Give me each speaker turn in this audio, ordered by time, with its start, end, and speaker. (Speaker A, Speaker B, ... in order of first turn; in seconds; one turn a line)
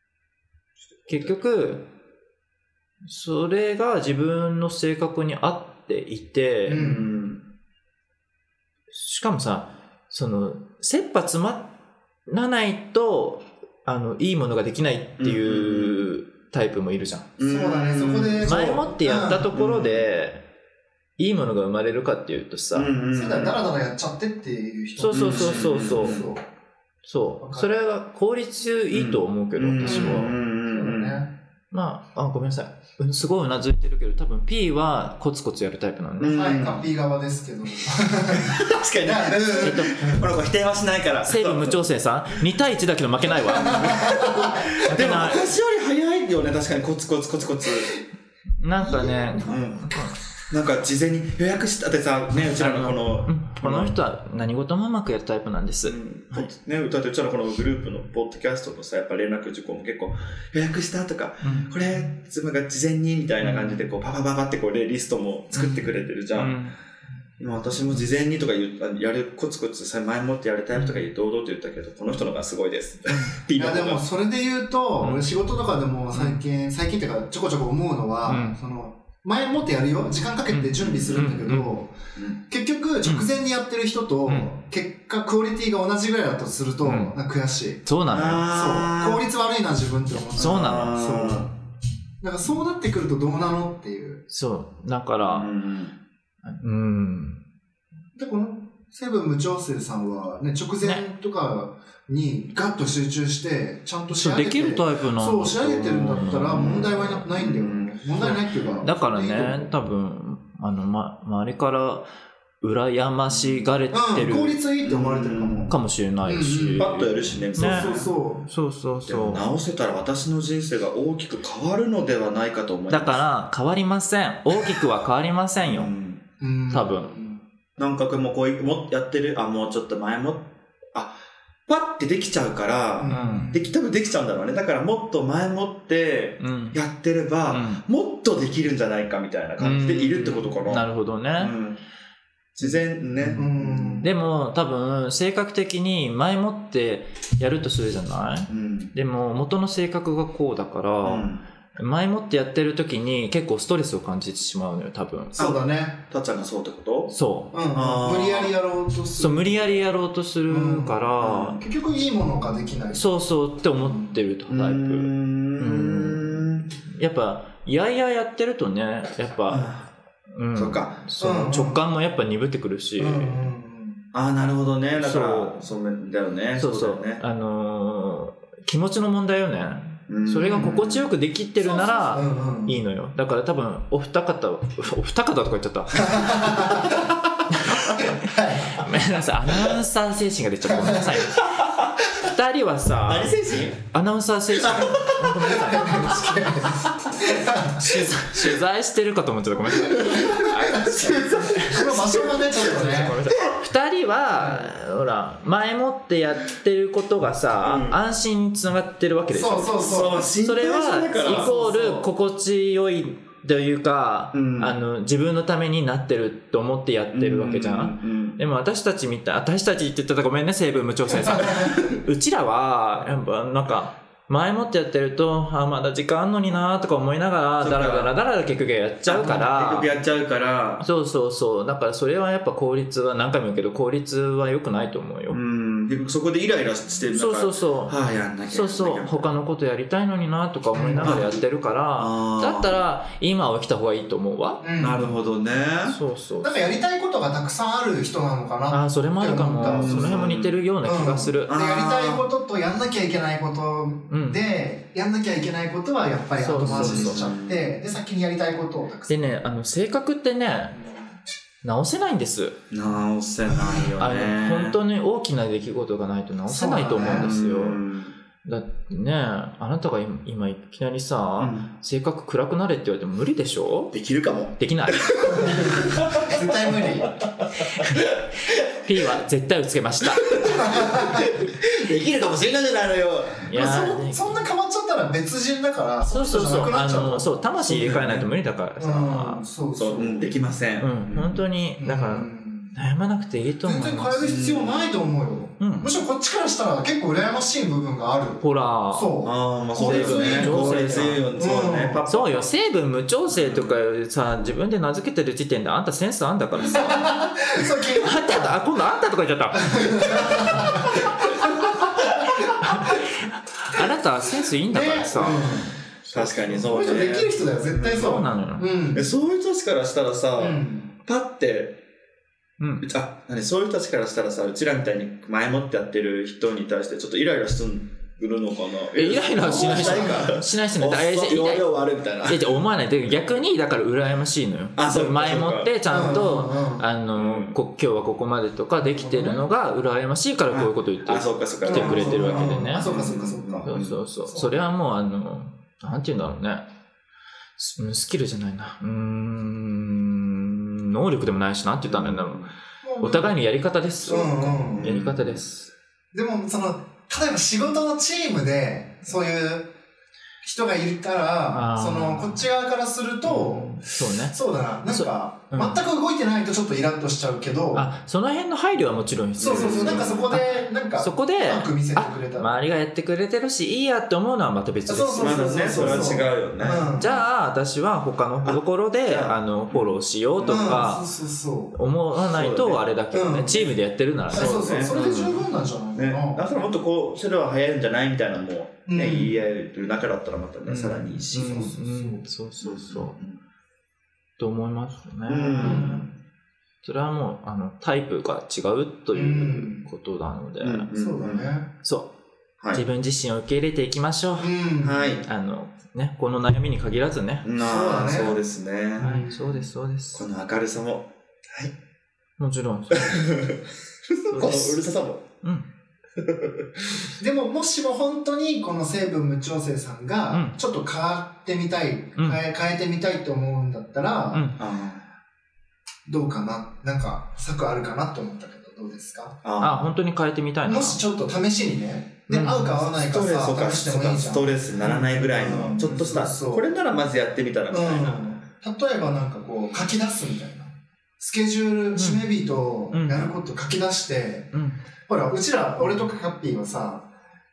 Speaker A: 1.1-1.9
Speaker A: 3.0-6.9
Speaker B: 6.7-7.1
Speaker C: 6.7-7.4
Speaker A: 8.9-11.7
Speaker A: 12.3-17.3
Speaker C: 15.2-16.1
Speaker C: 17.4-18.8
Speaker B: 17.4-19.5
Speaker A: 18.4-20.4
Speaker C: 19.5-20.1
Speaker A: 21.2-22.9
Speaker C: 22.7-23.6
Speaker B: 23.1-26.4
Speaker A: 25.0-26.2
Speaker C: 25.1-26.3
Speaker A: 27.0-30.3
Speaker B: 27.4-27.7
Speaker C: 28.9-31.2
Speaker B: 29.8-31.3
Speaker A: 31.7-36.4
Speaker C: 36.2-36.8
Speaker B: 36.3-40.3
Speaker C: 38.3-41.8
Speaker A: 39.6-40.1
Speaker A: 41.2-44.2
Speaker B: 43.5-44.7
Speaker C: 43.5-47.9
Speaker A: 44.7-45.5
Speaker A: 48.6-50.2
Speaker B: 48.8-49.5
Speaker C: 49.4-49.9
Speaker C: 50.5-54.0
Speaker A: 52.5-56.5
Speaker C: 55.8-66.6
Speaker A: 61.4-61.7
Speaker A: 63.4-63.8
Speaker A: 65.5-66.8
Speaker C: 67.4-74.0
Speaker A: 73.1-73.3
Speaker B: 73.5-82.0
Speaker A: 75.0-75.2
Speaker A: 76.1-76.4
Speaker A: 78.2-78.6
Speaker A: 80.5-81.7
Speaker C: 80.8-81.3
Speaker B: 82.5-87.8
Speaker A: 86.8-87.1
Speaker A: 87.8-88.5
Speaker C: 88.1-89.2
Speaker B: 88.4-91.5
Speaker A: 90.3-91.0
Speaker C: 90.3-91.5
Speaker B: 92.2-94.2
Speaker A: 94.3-95.5
Speaker C: 95.2-96.0
Speaker A: 96.4-97.4
Speaker B: 98.1-109.6
Speaker A: 104.1-107.3
Speaker C: 106.5-108.0
Speaker A: 108.2-112.1
Speaker A: 112.6-114.6
Speaker C: 113.3-113.7
Speaker B: 113.9-116.9
Speaker C: 114.8-115.8
Speaker A: 115.7-119.5
Speaker C: 116.8-118.1
Speaker B: 117.5-118.5
Speaker C: 119.1-123.2
Speaker A: 122.9-125.9
Speaker C: 125.6-126.2
Speaker B: 126.4-127.4
Speaker A: 126.7-127.1
Speaker C: 127.8-131.1
Speaker C: 131.7-141.8
Speaker B: 133.0-133.7
Speaker A: 133.1-133.5
Speaker A: 136.4-136.8
Speaker A: 137.5-137.8
Speaker A: 139.6-141.5
Speaker C: 142.5-144.1
Speaker A: 143.2-143.5
Speaker B: 143.3-144.1
Speaker A: 144.0-155.4
Speaker C: 148.5-148.9
Speaker C: 151.0-151.4
Speaker B: 155.3-156.0
Speaker C: 155.3-157.1
Speaker A: 157.1-157.5
Speaker B: 157.5-159.8
Speaker C: 157.7-158.5
Speaker A: 159.2-161.6
Speaker B: 160.5-164.2
Speaker C: 161.2-161.6
Speaker A: 162.9-169.7
Speaker C: 164.5-166.7
Speaker C: 169.5-169.9
Speaker A: 170.3-173.4
Speaker C: 170.5-171.0
Speaker B: 171.2-171.8
Speaker B: 173.0-174.0
Speaker C: 174.1-177.2
Speaker A: 174.9-175.7
Speaker A: 176.6-186.9
Speaker C: 180.1-181.1
Speaker B: 180.4-180.8
Speaker B: 181.6-182.8
Speaker B: 186.0-187.1
Speaker A: 187.5-196.5
Speaker B: 187.9-188.8
Speaker B: 190.7-191.2
Speaker C: 191.4-191.9
Speaker C: 193.1-193.8
Speaker C: 194.5-195.4
Speaker B: 195.5-198.0
Speaker A: 197.6-229.9
Speaker B: 199.8-203.2
Speaker C: 201.3-202.3
Speaker C: 202.9-203.6
Speaker B: 204.4-204.7
Speaker C: 207.6-208.0
Speaker B: 209.3-210.2
Speaker C: 209.8-211.5
Speaker B: 211.2-212.1
Speaker C: 214.3-214.8
Speaker C: 217.1-218.4
Speaker B: 221.3-221.7
Speaker C: 227.6-228.1
Speaker C: 229.1-230.9
Speaker A: 230.8-235.4
Speaker C: 235.3-239.3
Speaker A: 237.1-237.9
Speaker A: 238.5-244.6
Speaker B: 240.7-241.2
Speaker C: 241.0-241.4
Speaker C: 242.0-242.8
Speaker B: 244.6-245.1
Speaker C: 244.8-246.0
Speaker A: 245.8-246.5
Speaker B: 246.4-250.3
Speaker A: 248.7-251.5
Speaker C: 249.6-250.6
Speaker B: 250.8-259.3
Speaker C: 251.4-252.2
Speaker A: 254.1-254.4
Speaker A: 256.4-257.3
Speaker C: 256.6-257.7
Speaker A: 259.1-260.8
Speaker B: 260.8-261.1
Speaker A: 261.6-262.6
Speaker C: 262.7-264.8
Speaker A: 264.0-267.8
Speaker B: 266.5-267.3
Speaker C: 267.0-268.1
Speaker A: 268.4-273.9
Speaker C: 271.4-271.7
Speaker C: 273.9-278.9
Speaker A: 274.6-275.6
Speaker B: 275.3-277.1
Speaker A: 277.6-278.1
Speaker A: 278.7-280.5
Speaker C: 280.1-283.5
Speaker B: 280.4-281.3
Speaker A: 283.4-284.4
Speaker B: 283.5-288.3
Speaker A: 286.1-289.4
Speaker B: 288.8-290.3
Speaker C: 289.8-291.4
Speaker A: 290.8-294.2
Speaker B: 291.8-292.8
Speaker B: 293.6-302.0
Speaker C: 294.2-295.0
Speaker A: 295.6-295.9
Speaker A: 298.4-299.1
Speaker C: 299.2-302.5
Speaker A: 299.8-301.3
Speaker A: 302.1-307.2
Speaker C: 303.3-303.8
Speaker B: 306.7-308.5
Speaker A: 307.9-311.1
Speaker B: 309.6-311.9
Speaker A: 312.4-316.9
Speaker B: 314.7-315.7
Speaker C: 315.2-318.3
Speaker B: 316.6-319.1
Speaker A: 317.8-318.7
Speaker C: 318.9-321.8
Speaker B: 320.4-320.9
Speaker A: 322.6-322.9
Speaker C: 322.8-332.6
Speaker A: 328.9-342.9
Speaker B: 329.4-330.3
Speaker C: 334.8-336.1
Speaker B: 335.9-336.9
Speaker C: 337.1-337.6
Speaker B: 338.9-339.4
Speaker C: 340.5-343.9
Speaker B: 341.6-343.7
Speaker A: 343.6-346.6
Speaker B: 344.3-344.6
Speaker A: 347.6-355.7
Speaker C: 351.9-352.5
Speaker B: 352.8-353.3
Speaker B: 354.1-354.9
Speaker C: 354.8-355.4
Speaker B: 356.1-359.7
Speaker B: 360.4-367.9
Speaker A: 361.5-362.4
Speaker A: 363.2-365.8
Speaker A: 367.7-376.1
Speaker B: 369.4-372.6
Speaker C: 369.4-370.2
Speaker B: 374.9-377.2
Speaker C: 375.2-377.2
Speaker A: 377.0-381.1
Speaker C: 378.4-380.8
Speaker B: 380.4-381.8
Speaker A: 381.7-384.7
Speaker C: 382.3-382.9
Speaker B: 383.1-383.7
Speaker B: 384.3-386.5
Speaker C: 384.3-391.6
Speaker B: 388.9-389.3
Speaker A: 390.7-393.1
Speaker B: 391.3-392.2
Speaker C: 392.6-393.4
Speaker A: 394.4-396.1
Speaker C: 395.3-396.1
Speaker B: 395.6-396.0
Speaker A: 396.8-400.9
Speaker B: 399.1-399.9
Speaker C: 400.6-401.5
Speaker B: 400.9-401.7
Speaker A: 401.8-402.1
Speaker A: 402.7-404.5
Speaker B: 404.4-405.1
Speaker C: 404.8-405.2
Speaker A: 405.2-407.5
Speaker C: 407.4-409.1
Speaker B: 407.6-408.4
Speaker B: 409.0-409.7
Speaker A: 409.0-410.2
Speaker C: 410.1-411.7
Speaker A: 412.4-413.3
Speaker C: 412.9-415.2
Speaker A: 414.3-414.9
Speaker A: 415.4-415.7
Speaker C: 416.2-416.7
Speaker B: 417.2-424.5
Speaker A: 420.3-420.6
Speaker A: 422.2-422.4
Speaker A: 424.3-424.6
Speaker C: 424.6-425.0
Speaker B: 426.1-429.4
Speaker C: 429.4-429.8
Speaker A: 429.6-431.0
Speaker B: 430.6-436.6
Speaker A: 432.3-432.8
Speaker C: 432.9-438.2
Speaker A: 435.8-436.1
Speaker B: 437.7-444.5
Speaker A: 441.9-442.2
Speaker A: 442.9-443.3
Speaker A: 444.5-444.8
Speaker B: 445.1-447.1